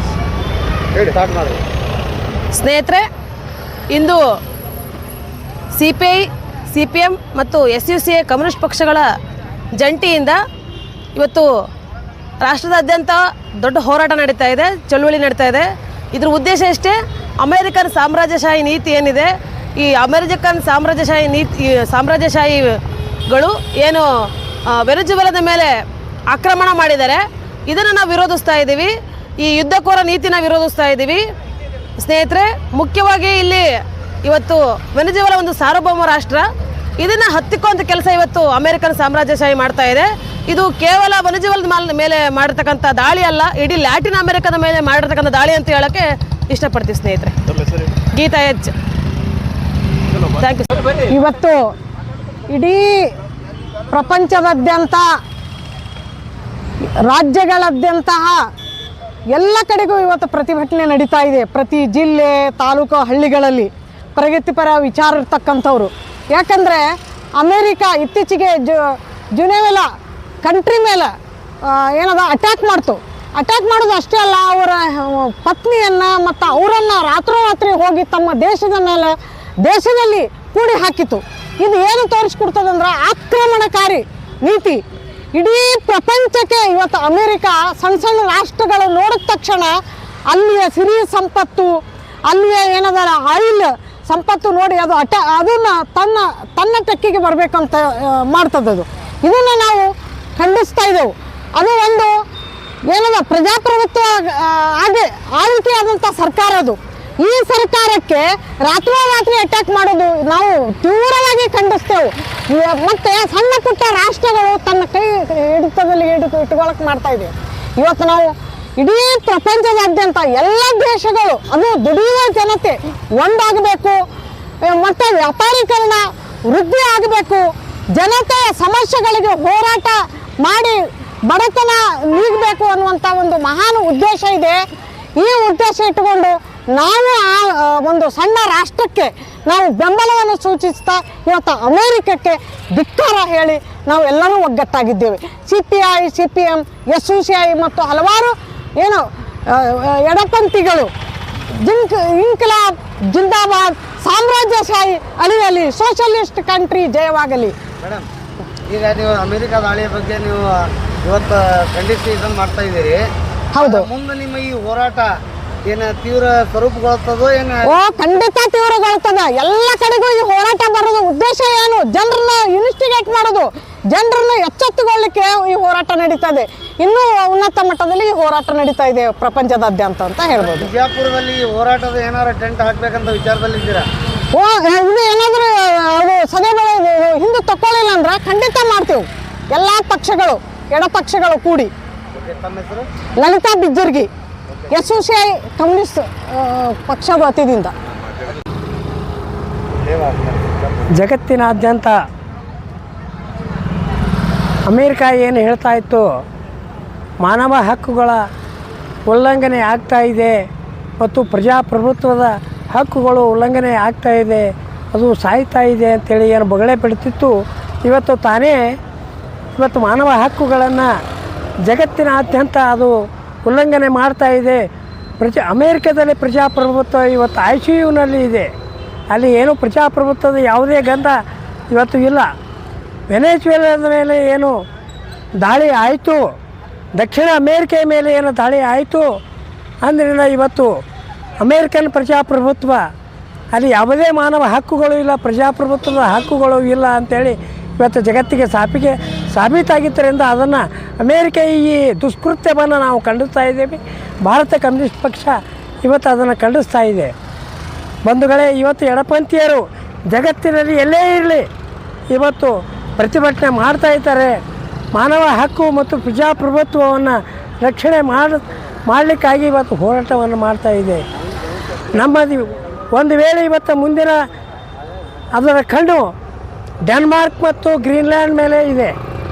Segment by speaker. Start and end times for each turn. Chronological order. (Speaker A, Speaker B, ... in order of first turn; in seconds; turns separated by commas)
Speaker A: 0.9-1.6, Speaker B: 2.5-3.1, Speaker B: 3.9-4.2, Speaker B: 5.7-9.0, Speaker B: 9.8-10.4, Speaker B: 11.2-11.5, Speaker B: 12.4-22.7, Speaker B: 23.3-24.1, Speaker B: 24.7-25.7, Speaker B: 26.3-31.2, Speaker B: 32.0-33.7, Speaker B: 34.2-36.5, Speaker B: 37.0-47.4, Speaker B: 48.1-48.7, Speaker B: 50.4-50.9, Speaker C: 51.1-51.7, Speaker C: 52.5-53.0, Speaker C: 53.9-55.0, Speaker C: 57.0-58.4, Speaker C: 59.3-66.8, Speaker C: 67.4-69.9, Speaker C: 70.4-71.1, Speaker C: 71.7-84.8, Speaker C: 85.3-89.7, Speaker C: 90.3-91.7, Speaker C: 92.3-102.1, Speaker C: 102.9-124.0, Speaker C: 124.6-134.6, Speaker C: 135.2-150.9, Speaker C: 151.6-157.6, Speaker A: 157.8-158.1, Speaker A: 158.7-163.0, Speaker C: 163.5-163.9, Speaker A: 163.6-165.1, Speaker A: 165.6-167.7, Speaker C: 167.7-180.7, Speaker A: 180.4-183.9, Speaker C: 184.3-191.7, Speaker A: 192.1-192.9, Speaker C: 193.2-194.1, Speaker C: 194.7-197.7, Speaker A: 199.8-200.8, Speaker D: 201.0-202.0, Speaker D: 204.7-206.0, Speaker D: 207.2-208.2, Speaker D: 209.1-210.4, Speaker D: 211.0-218.8, Speaker D: 219.6-220.9, Speaker D: 221.6-224.6, Speaker D: 225.2-228.5, Speaker D: 229.1-231.2, Speaker D: 231.7-232.3, Speaker D: 233.1-234.6, Speaker D: 235.4-236.2, Speaker D: 237.0-239.1, Speaker D: 239.8-240.7, Speaker D: 241.4-242.8, Speaker D: 243.5-257.1, Speaker D: 258.1-261.4, Speaker D: 262.1-264.4, Speaker D: 264.9-271.0, Speaker D: 272.0-274.3, Speaker D: 275.4-276.1, Speaker D: 276.9-278.9